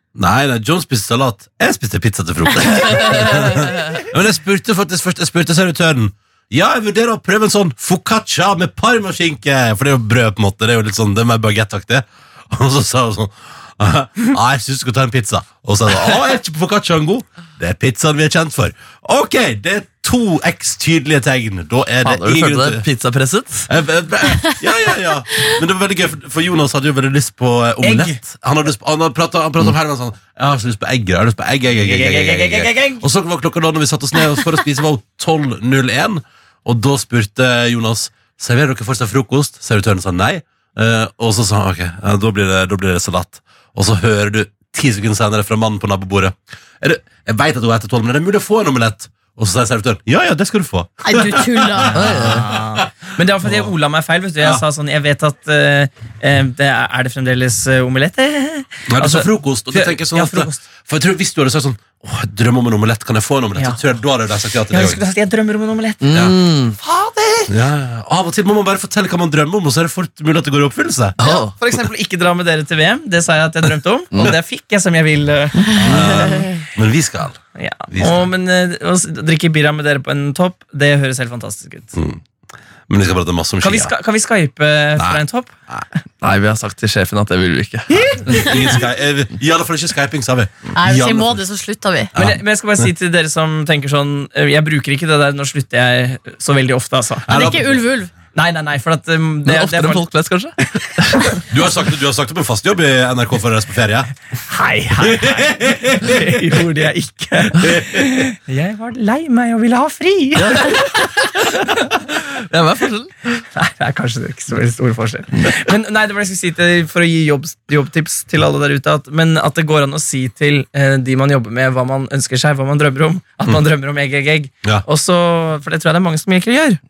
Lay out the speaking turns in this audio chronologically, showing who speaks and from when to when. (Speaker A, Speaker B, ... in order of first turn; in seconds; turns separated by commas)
Speaker A: 0.1-22.8, Speaker B: 22.0-23.7, Speaker A: 23.7-52.8, Speaker C: 27.8-28.2, Speaker C: 31.8-33.0, Speaker D: 51.0-52.0, Speaker B: 51.9-52.5, Speaker C: 52.1-60.6, Speaker A: 53.4-53.7, Speaker A: 58.9-65.0, Speaker C: 64.7-67.5, Speaker B: 66.0-66.8, Speaker A: 67.5-71.2, Speaker B: 71.2-71.5, Speaker C: 71.2-76.6, Speaker A: 75.8-78.3, Speaker C: 77.5-81.9, Speaker A: 81.9-82.2, Speaker A: 82.9-83.9, Speaker C: 83.6-85.5, Speaker A: 85.0-85.8, Speaker B: 86.2-88.0, Speaker A: 88.2-91.4, Speaker D: 90.7-92.1, Speaker A: 92.1-92.4, Speaker C: 92.2-97.5, Speaker A: 97.3-97.7, Speaker D: 97.3-98.1, Speaker C: 98.3-100.0, Speaker B: 99.5-101.4, Speaker A: 101.5-104.1, Speaker C: 104.5-111.0, Speaker A: 105.0-106.3, Speaker A: 107.6-108.2, Speaker B: 110.4-111.5, Speaker B: 112.3-113.1, Speaker C: 113.5-126.8